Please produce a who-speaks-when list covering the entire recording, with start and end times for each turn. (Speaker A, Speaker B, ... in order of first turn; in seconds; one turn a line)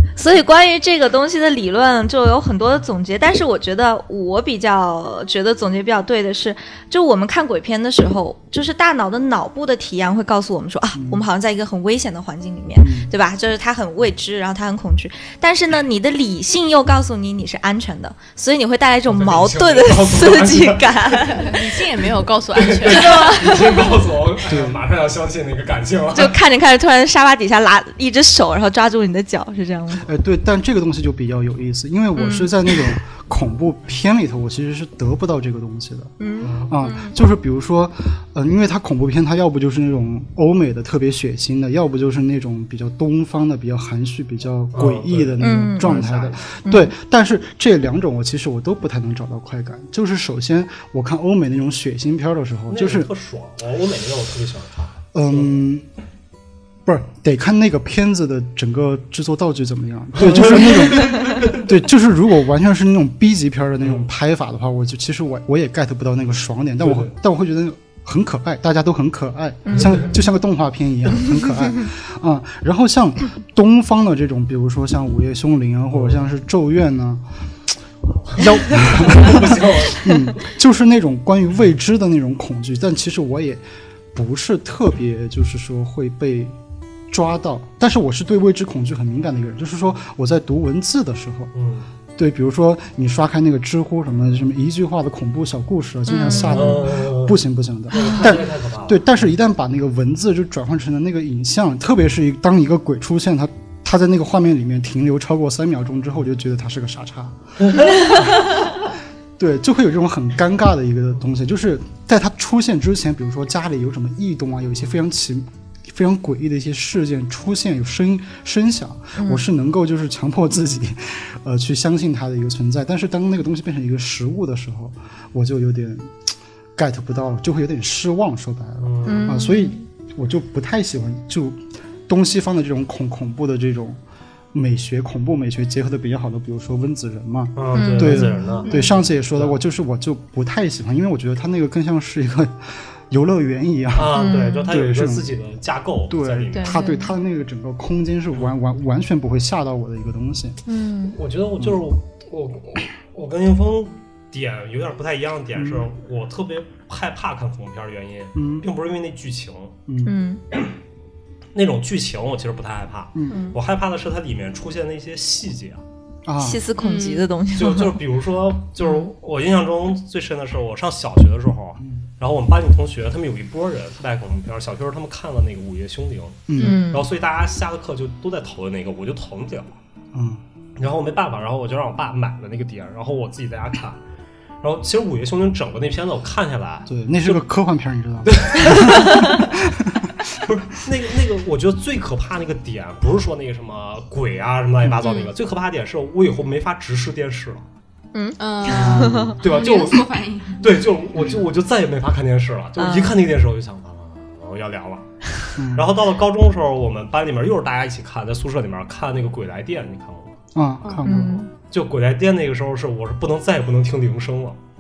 Speaker A: 0.2-21.6
Speaker B: 10.9-11.2
Speaker B: 12.8-13.1
Speaker C: 19.1-21.6
Speaker D: 21.2-23.6
Speaker C: 22.6-26.4
Speaker A: 22.9-23.9
Speaker B: 24.4-24.9
Speaker A: 26.1-30.1
Speaker B: 30.0-53.1
Speaker A: 32.2-32.9
Speaker A: 36.2-37.2
Speaker C: 36.4-36.7
Speaker C: 44.7-46.6
Speaker A: 45.4-46.0
Speaker A: 46.6-46.9
Speaker C: 52.7-55.6
Speaker B: 55.1-55.9
Speaker B: 56.9-77.2
Speaker C: 60.1-61.8
Speaker C: 63.8-64.1
Speaker C: 66.8-67.1
Speaker C: 69.7-70.1
Speaker C: 75.9-76.2
Speaker C: 78.3-80.2
Speaker B: 78.3-83.6
Speaker B: 84.1-86.6
Speaker B: 87.1-91.5
Speaker C: 91.5-91.9
Speaker B: 92.2-107.4
Speaker A: 96.1-96.9
Speaker C: 96.2-99.2
Speaker C: 107.6-108.2
Speaker B: 108.1-108.8
Speaker B: 109.4-134.0
Speaker A: 119.2-119.4
Speaker C: 128.8-129.4
Speaker A: 129.1-129.8
Speaker B: 134.5-145.3
Speaker C: 137.6-138.7
Speaker A: 137.7-138.7
Speaker D: 138.6-139.1
Speaker C: 143.9-146.8
Speaker A: 144.1-144.7
Speaker B: 146.1-150.6
Speaker A: 146.5-147.2
Speaker A: 150.7-151.2
Speaker C: 151.2-159.8
Speaker B: 155.6-155.9
Speaker B: 158.3-158.7
Speaker B: 159.9-160.2
Speaker A: 160.0-160.4
Speaker C: 161.6-165.8
Speaker B: 163.2-163.4
Speaker A: 163.3-163.6
Speaker B: 166.2-166.6
Speaker A: 166.4-168.0
Speaker D: 166.8-167.2
Speaker C: 167.5-179.8
Speaker A: 168.8-169.1
Speaker B: 176.5-176.9
Speaker A: 176.6-177.1
Speaker D: 176.6-176.9
Speaker B: 180.1-180.4
Speaker C: 180.8-184.0
Speaker C: 184.6-187.4
Speaker B: 186.9-190.1
Speaker C: 188.2-189.5
Speaker A: 188.7-189.4
Speaker C: 190.4-197.7
Speaker D: 195.0-195.3
Speaker A: 198.1-199.4
Speaker D: 198.4-200.7
Speaker B: 198.7-199.4
Speaker C: 199.4-205.1
Speaker A: 202.8-203.2
Speaker B: 205.6-205.9
Speaker C: 205.6-210.4
Speaker B: 210.5-211.4
Speaker D: 210.8-211.1
Speaker A: 211.1-211.5
Speaker C: 211.7-214.6